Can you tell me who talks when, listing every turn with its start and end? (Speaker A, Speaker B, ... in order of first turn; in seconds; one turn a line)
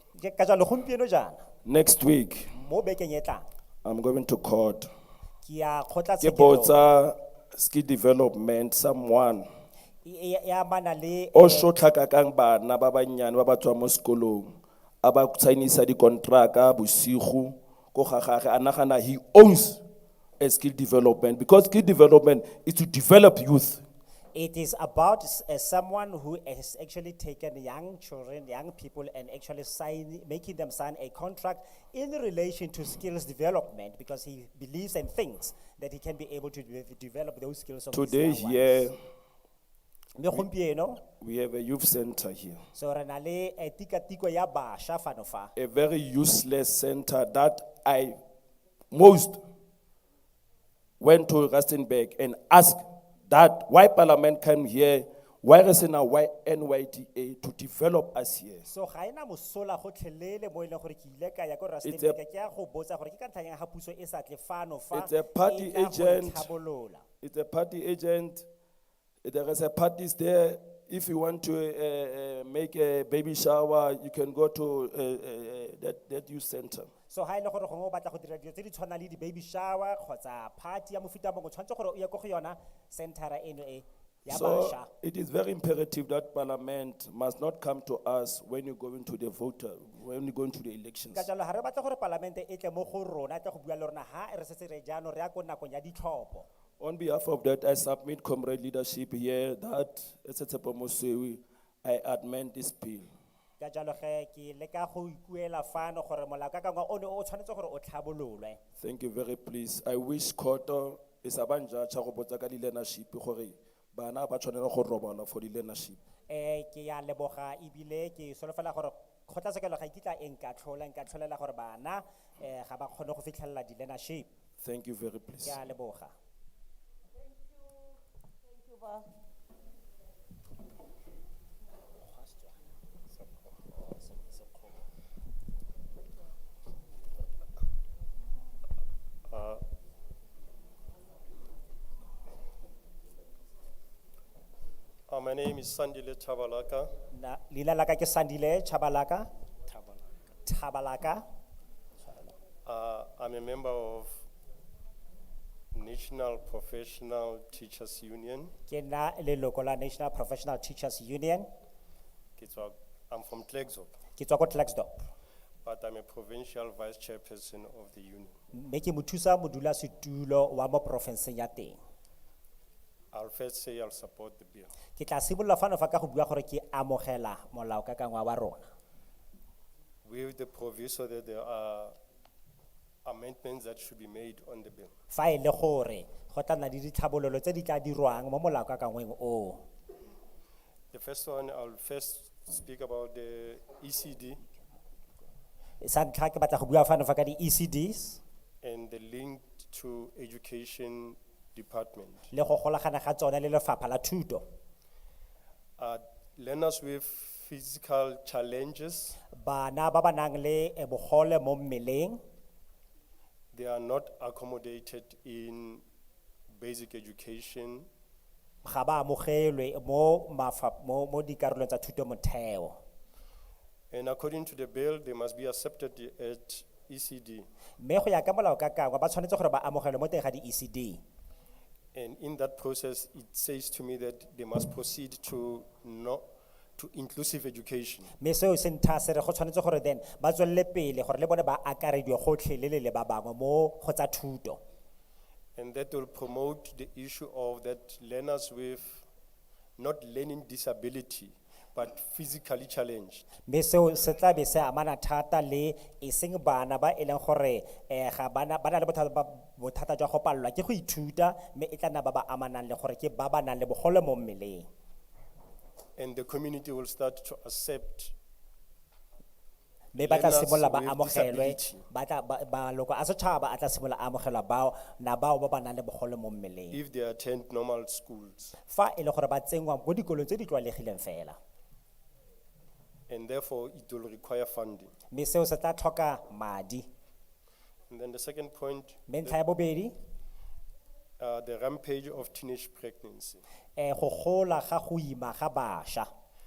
Speaker A: 0.1-1.4
Speaker B: 1.6-2.5
Speaker A: 2.5-3.4
Speaker B: 3.8-4.9
Speaker A: 5.4-6.8
Speaker B: 6.2-9.4
Speaker A: 10.0-11.7
Speaker B: 11.3-19.8
Speaker B: 20.4-23.8
Speaker A: 24.3-38.9
Speaker B: 37.9-38.9
Speaker A: 40.1-41.0
Speaker B: 41.2-42.7
Speaker A: 42.7-45.5
Speaker B: 45.5-48.2
Speaker B: 48.9-49.4
Speaker B: 51.0-58.7
Speaker A: 58.6-67.0
Speaker B: 61.8-62.2
Speaker B: 64.9-66.5
Speaker B: 67.2-68.5
Speaker B: 69.2-76.9
Speaker A: 77.1-84.9
Speaker B: 84.3-91.3
Speaker A: 91.1-96.5
Speaker B: 96.8-103.1
Speaker A: 103.6-108.6
Speaker B: 108.8-116.0
Speaker A: 116.3-124.3
Speaker B: 124.6-125.6
Speaker A: 125.4-126.1
Speaker A: 133.7-134.6
Speaker C: 139.3-139.6
Speaker C: 145.1-146.9
Speaker A: 147.1-149.3
Speaker A: 150.4-151.2
Speaker C: 152.6-154.2
Speaker C: 155.7-158.5
Speaker A: 158.7-161.5
Speaker C: 162.4-163.9
Speaker A: 164.2-165.0
Speaker C: 165.6-168.4
Speaker A: 168.5-171.8
Speaker C: 173.1-174.7
Speaker A: 174.9-178.7
Speaker C: 180.0-182.0
Speaker C: 183.0-184.9
Speaker A: 185.1-189.6
Speaker C: 190.9-194.4
Speaker A: 195.8-198.2
Speaker C: 198.6-202.3
Speaker A: 202.3-204.4
Speaker C: 205.8-209.2
Speaker A: 209.3-212.2
Speaker C: 213.5-215.8
Speaker C: 216.5-217.9
Speaker A: 218.6-222.8
Speaker C: 223.9-227.5
Speaker A: 227.8-231.0
Speaker C: 231.9-236.2
Speaker C: 236.8-238.1
Speaker A: 238.2-244.6
Speaker C: 245.6-249.0
Speaker C: 249.8-253.2
Speaker A: 253.4-264.7
Speaker C: 266.0-268.1
Speaker A: 269.9-276.8
Speaker C: 270.0-271.9
Speaker C: 276.7-278.6
Speaker A: 278.7-281.4
Speaker C: 283.1-284.9
Speaker A: 285.1-286.9
Speaker C: 287.9-289.4
Speaker A: 289.1-289.9
Speaker C: 291.2-293.4
Speaker A: 293.8-296.1